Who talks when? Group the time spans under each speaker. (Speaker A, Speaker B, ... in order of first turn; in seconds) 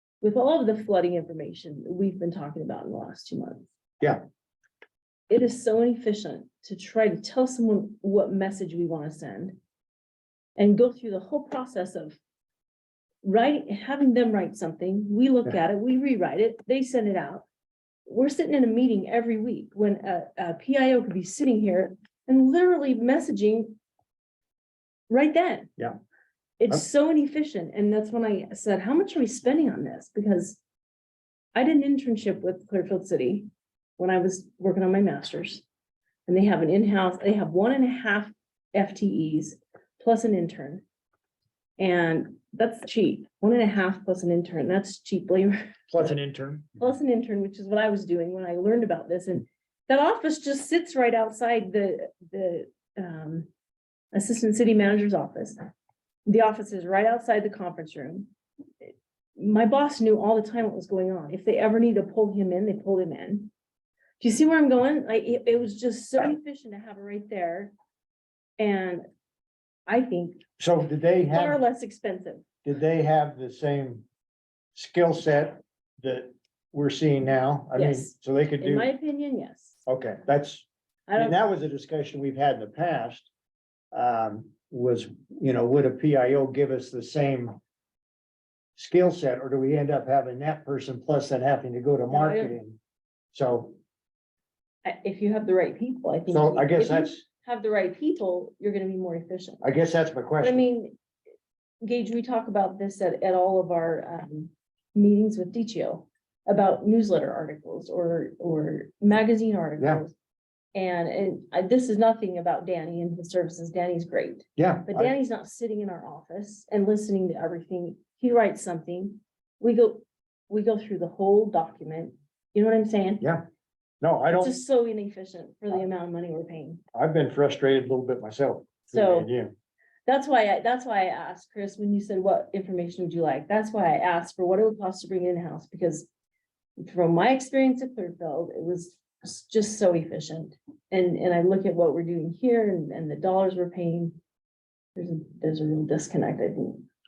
Speaker A: 0.2-3.7, 5.3-9.6, 10.6-12.2, 13.2-17.4, 18.1-23.8, 25.1-25.7, 26.6-30.6, 31.5-35.6, 36.3-40.8, 41.8-46.1, 46.8-53.5, 54.1-55.6, 56.2-58.3, 59.4-63.5, 64.2-67.7, 68.6-69.0, 69.9-70.4, 71.3-72.4, 77.7-79.8, 81.1-81.4, 92.1-92.6, 94.8-99.6, 100.4-101.0, 101.8-110.1, 110.7-123.2, 124.3-126.8, 128.9-129.3, 130.1-136.1, 136.8-144.2, 144.9-146.8
Speaker B: 45.9-46.7, 70.6-71.6, 72.6-74.0, 74.7-78.9, 79.8-80.7, 81.2-83.3, 83.9-87.6, 88.8-92.8, 93.3-93.8, 96.3-97.2, 99.6-100.6, 109.8-110.0, 114.6-115.1, 124.0-124.5, 126.9-129.5